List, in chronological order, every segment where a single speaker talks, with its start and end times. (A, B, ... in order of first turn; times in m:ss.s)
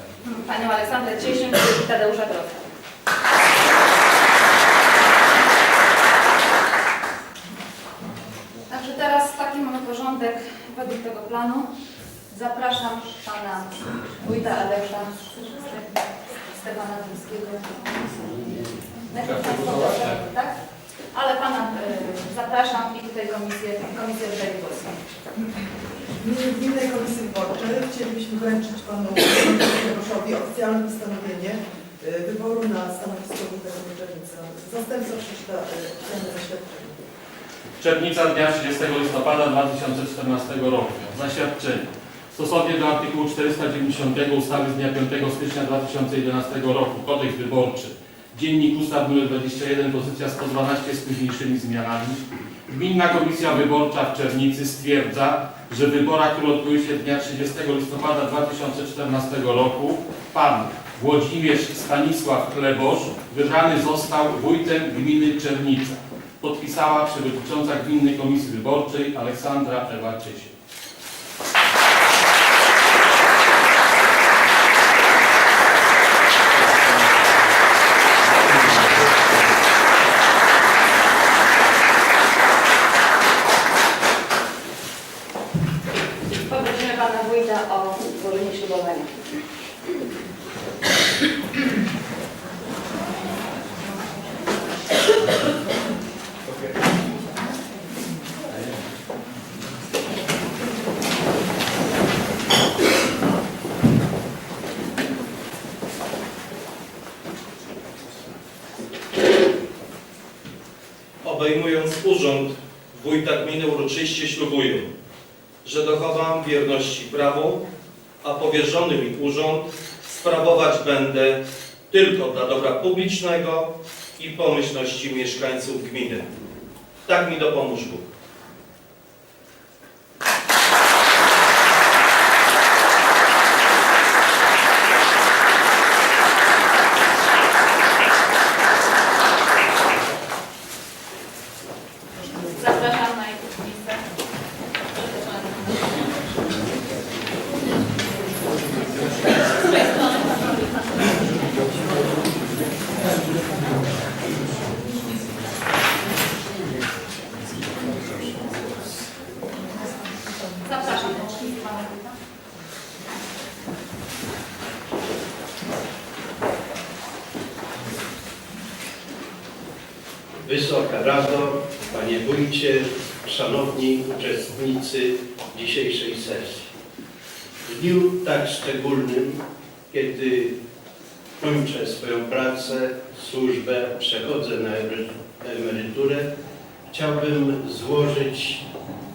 0:00.2-0:02.7 A
0:08.7-0:11.7 A
0:12.3-0:18.2 A
0:19.1-0:20.6 A
0:19.2-0:20.2 B
0:21.1-0:25.0 A
0:26.2-0:37.0 C
0:37.8-1:10.5 B
1:18.4-1:19.1 B
1:26.3-1:29.2 A
1:51.2-1:54.9 D
1:55.6-1:57.6 D
1:58.2-2:06.3 D
2:07.0-2:08.1 D
2:22.4-2:24.0 A
2:24.8-2:26.0 A
2:40.6-2:42.2 A
2:50.4-2:56.7 E
2:57.6-3:00.6 E
3:01.4-3:06.3 E
3:06.9-3:08.6 E